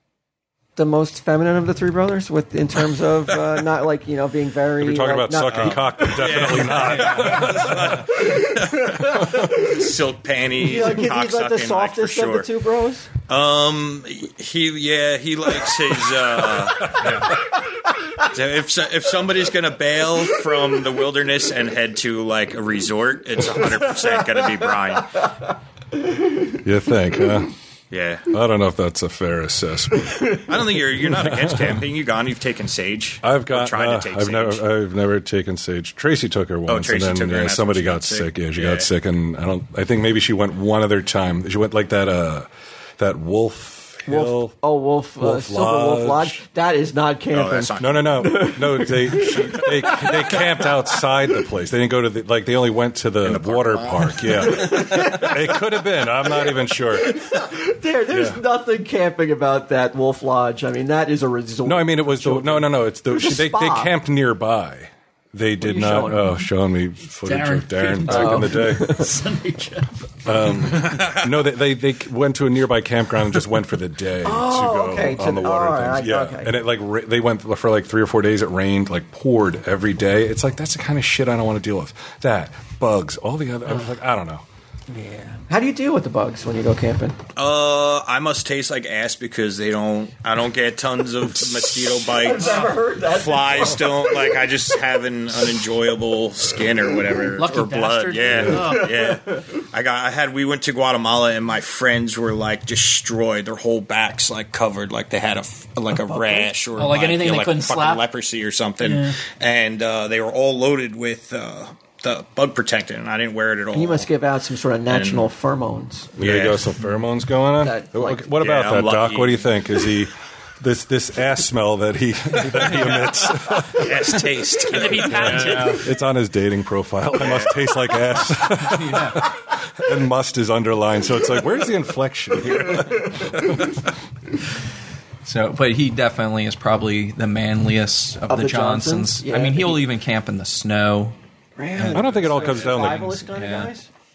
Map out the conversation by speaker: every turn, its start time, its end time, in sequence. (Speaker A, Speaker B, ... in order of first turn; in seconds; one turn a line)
Speaker A: 0.8-6.2
Speaker B: 4.8-8.2
Speaker C: 5.5-12.5
Speaker D: 6.7-7.6
Speaker A: 8.6-9.8
Speaker B: 9.1-9.5
Speaker A: 10.6-13.1
Speaker C: 13.3-17.1
Speaker B: 16.8-17.3
Speaker D: 17.0-17.3
Speaker C: 18.2-25.3
Speaker B: 26.6-27.6
Speaker C: 27.9-28.3
Speaker B: 28.3-30.4
Speaker C: 30.4-34.6
Speaker B: 31.1-31.9
Speaker B: 33.2-44.5
Speaker C: 36.7-38.9
Speaker A: 44.1-50.7
Speaker B: 45.2-46.4
Speaker C: 47.3-48.0
Speaker B: 47.8-57.3
Speaker C: 53.2-54.8
Speaker A: 54.3-55.7
Speaker A: 56.2-63.9
Speaker B: 58.1-58.4
Speaker B: 61.6-69.0
Speaker A: 65.6-66.5
Speaker E: 67.2-69.9
Speaker A: 68.1-69.1
Speaker B: 70.2-84.5
Speaker C: 70.8-71.2
Speaker A: 74.2-76.6
Speaker A: 84.9-87.2
Speaker C: 87.4-114.1
Speaker A: 92.0-94.5
Speaker E: 97.4-98.9
Speaker B: 98.3-98.6
Speaker A: 98.5-99.4
Speaker A: 106.1-106.5
Speaker E: 106.8-108.0
Speaker E: 108.8-109.2
Speaker A: 113.7-116.2
Speaker C: 114.9-115.3
Speaker B: 116.2-124.1
Speaker C: 116.2-116.7
Speaker A: 117.6-118.4
Speaker C: 118.4-119.7
Speaker C: 123.5-125.8
Speaker E: 124.6-125.9
Speaker B: 125.1-133.8
Speaker C: 127.2-127.5
Speaker D: 128.5-129.3
Speaker D: 135.2-141.2
Speaker A: 138.3-139.9
Speaker A: 141.6-143.9
Speaker D: 141.8-142.5
Speaker B: 141.9-143.3
Speaker D: 143.3-143.7